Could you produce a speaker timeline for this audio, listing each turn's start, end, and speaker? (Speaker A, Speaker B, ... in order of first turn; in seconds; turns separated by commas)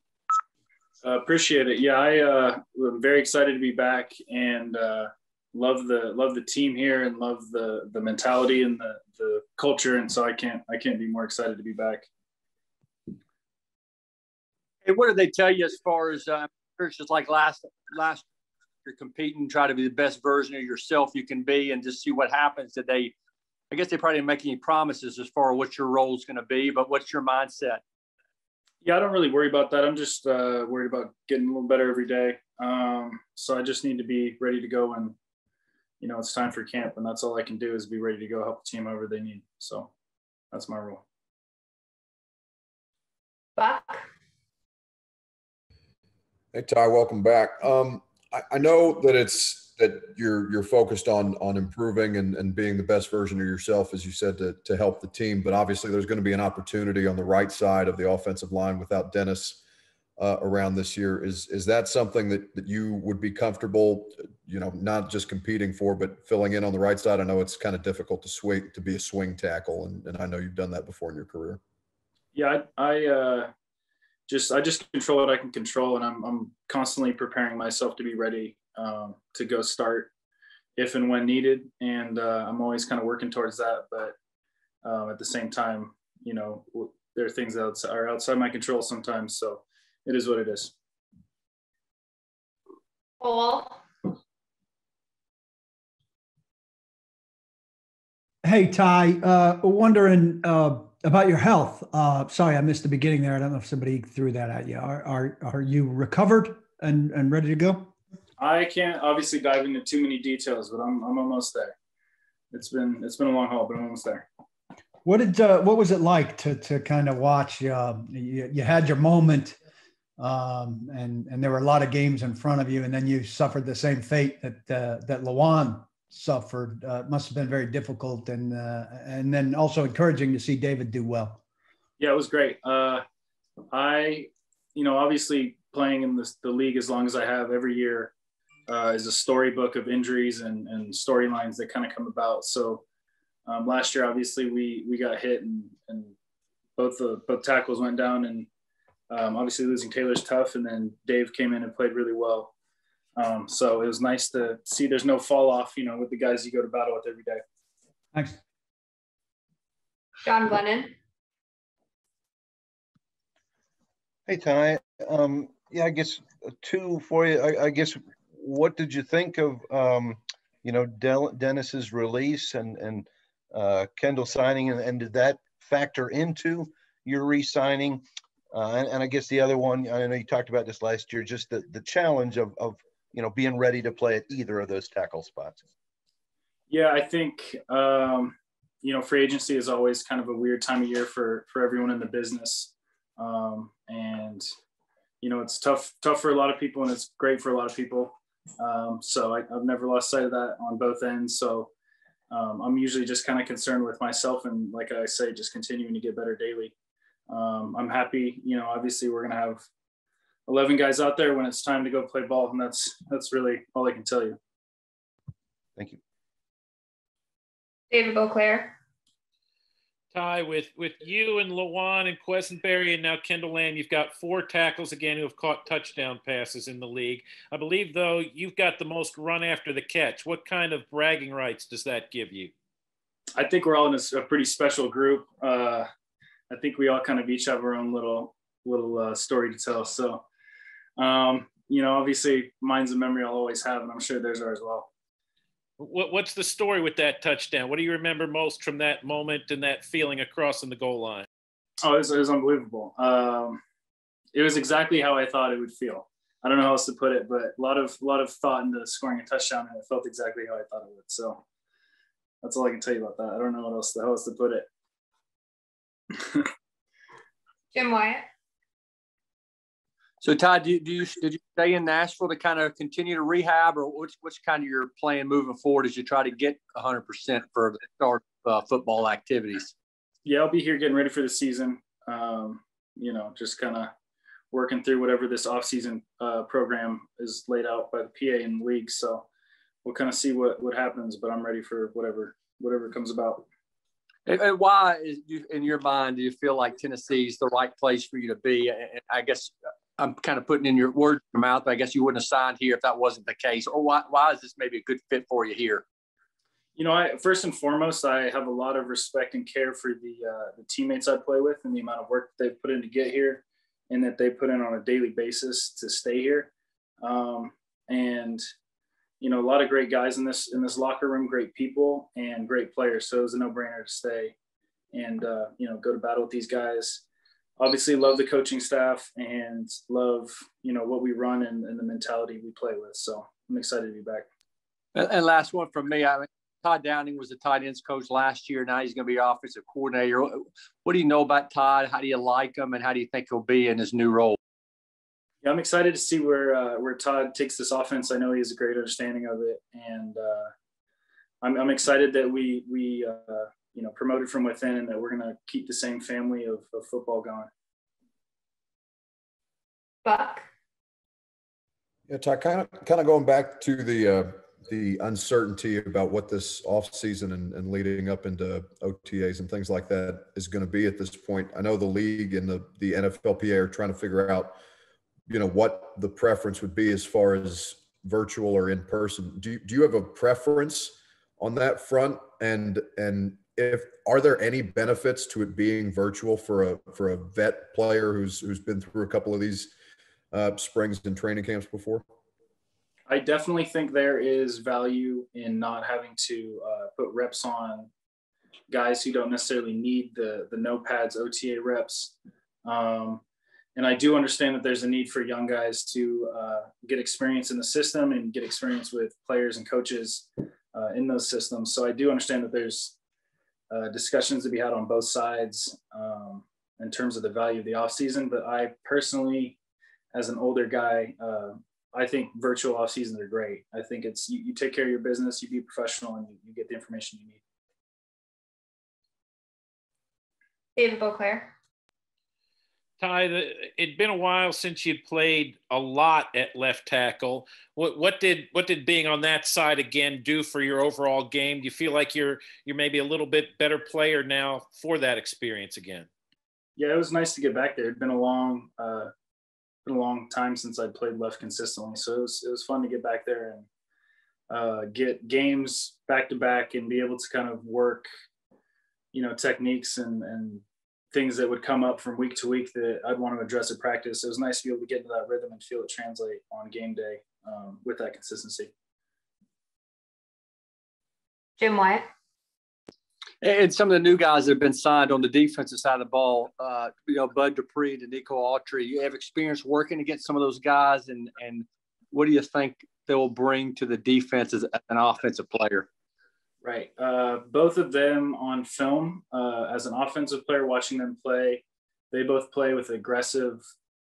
Speaker A: 1.0-12.1, Speaker B: 14.8-18.2, Speaker B: 18.9-23.1, Speaker B: 23.7-27.8, Speaker A: 28.8-35.2, Speaker A: 36.0-39.9, Speaker A: 40.5-41.0, Speaker C: 43.6-44.1, Speaker D: 46.5-59.6, Speaker D: 60.2-71.6, Speaker A: 72.3-73.5, Speaker A: 74.3-80.1, Speaker A: 80.8-84.1, Speaker A: 84.8-90.7, Speaker C: 93.2-93.8, Speaker E: 98.4-107.9, Speaker A: 108.4-111.7, Speaker A: 112.5-114.3, Speaker E: 115.0-119.6, Speaker E: 120.2-131.4, Speaker A: 132.0-133.0, Speaker A: 133.7-138.1, Speaker A: 138.7-142.8, Speaker A: 143.5-146.1, Speaker A: 146.8-148.5, Speaker A: 149.1-152.5, Speaker A: 153.2-157.4, Speaker E: 158.1-158.4, Speaker C: 160.2-160.9, Speaker F: 164.3-185.6, Speaker A: 186.7-194.5, Speaker A: 195.2-201.7, Speaker A: 202.3-206.7, Speaker A: 207.3-209.6, Speaker A: 210.5-214.4, Speaker C: 217.9-218.8, Speaker G: 220.1-232.5, Speaker A: 233.4-235.9, Speaker A: 236.5-240.2, Speaker A: 241.0-244.9, Speaker G: 245.8-251.3, Speaker A: 251.8-253.6, Speaker A: 254.3-261.4, Speaker A: 262.4-264.7, Speaker C: 267.7-268.3, Speaker B: 270.2-279.7, Speaker A: 280.2-283.9, Speaker A: 284.5-289.3, Speaker A: 289.8-293.5, Speaker B: 294.3-305.8, Speaker A: 306.8-318.4, Speaker A: 319.2-324.4, Speaker A: 324.9-327.0, Speaker A: 327.6-334.3, Speaker B: 334.9-344.4, Speaker A: 345.4-350.5, Speaker A: 351.4-357.5, Speaker C: 360.0-360.5, Speaker D: 362.1-374.6, Speaker D: 375.3-389.7, Speaker D: 390.3-392.0, Speaker A: 393.1-397.9, Speaker A: 398.7-403.2, Speaker A: 403.8-412.9, Speaker A: 413.7-419.6, Speaker A: 420.1-427.4, Speaker C: 430.8-431.5, Speaker G: 433.0-446.1, Speaker A: 446.8-449.1, Speaker A: 449.9-453.7, Speaker A: 454.5-458.1, Speaker A: 459.1-468.7, Speaker C: 471.6-472.1, Speaker B: 473.4-485.9, Speaker A: 486.6-493.7